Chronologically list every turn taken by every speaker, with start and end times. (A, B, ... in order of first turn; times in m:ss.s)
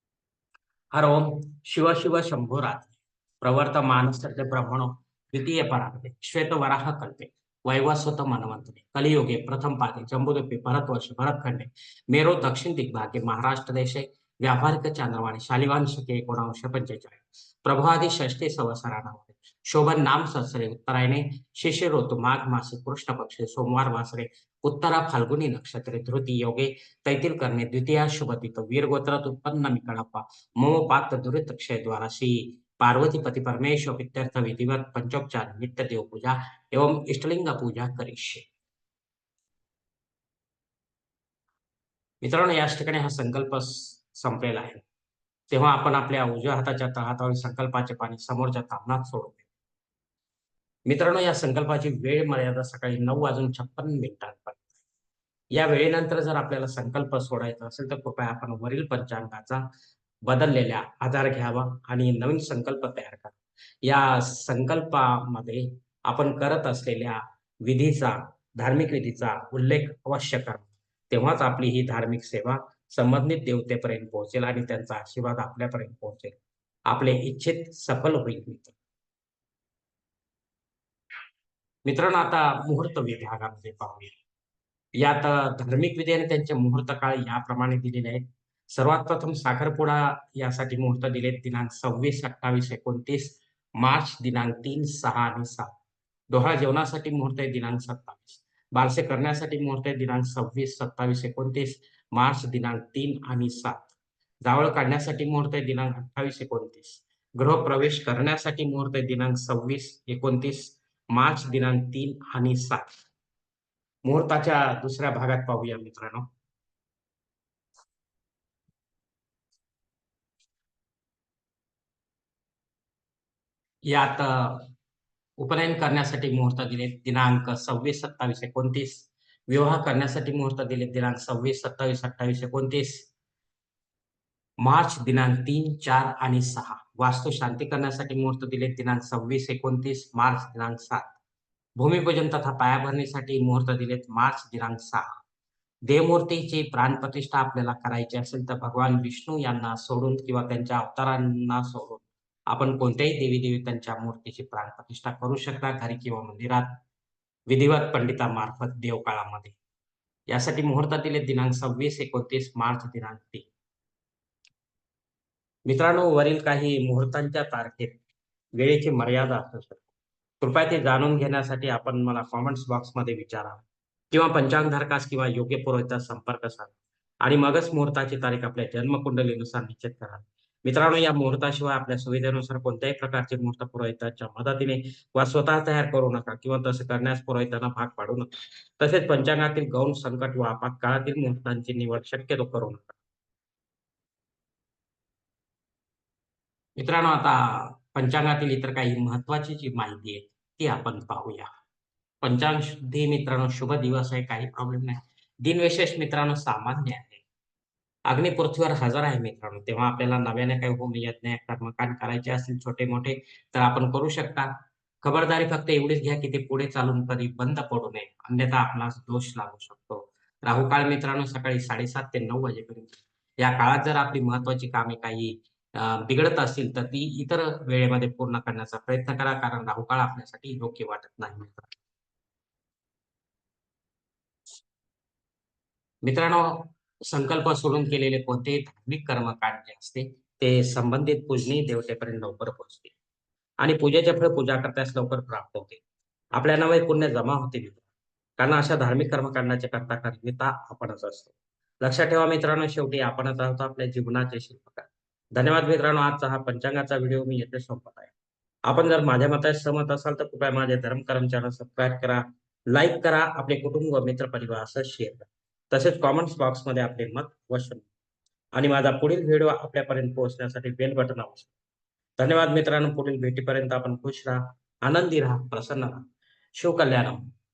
0:00.9-0:38.4 A
0:42.2-0:44.8 A
0:45.5-0:49.4 A
0:50.9-0:54.7 A
0:55.5-0:59.6 A
1:00.2-1:16.4 A
1:16.9-1:18.8 A
1:21.8-1:24.1 A
1:25.0-1:35.7 A
1:36.3-1:43.9 A
1:44.4-1:53.0 A
1:54.0-1:56.3 A
2:03.9-2:04.7 A
2:05.4-2:13.1 A
2:14.6-2:21.2 A
2:21.8-2:25.2 A
2:25.9-2:36.8 A
2:37.5-2:39.6 A
2:40.3-2:43.5 A
2:45.7-2:48.0 A
2:48.6-2:49.8 A
2:50.4-3:13.0 A
3:16.8-3:21.5 A
3:22.2-3:27.2 A
3:28.1-3:34.5 A
3:35.0-3:51.7 A
3:56.0-4:02.9 A
4:03.6-4:05.8 A
4:06.3-4:07.8 A
4:08.4-4:18.1 A
4:18.7-4:27.9 A
4:28.6-4:31.5 A
4:32.2-4:36.0 A
4:36.6-4:37.2 A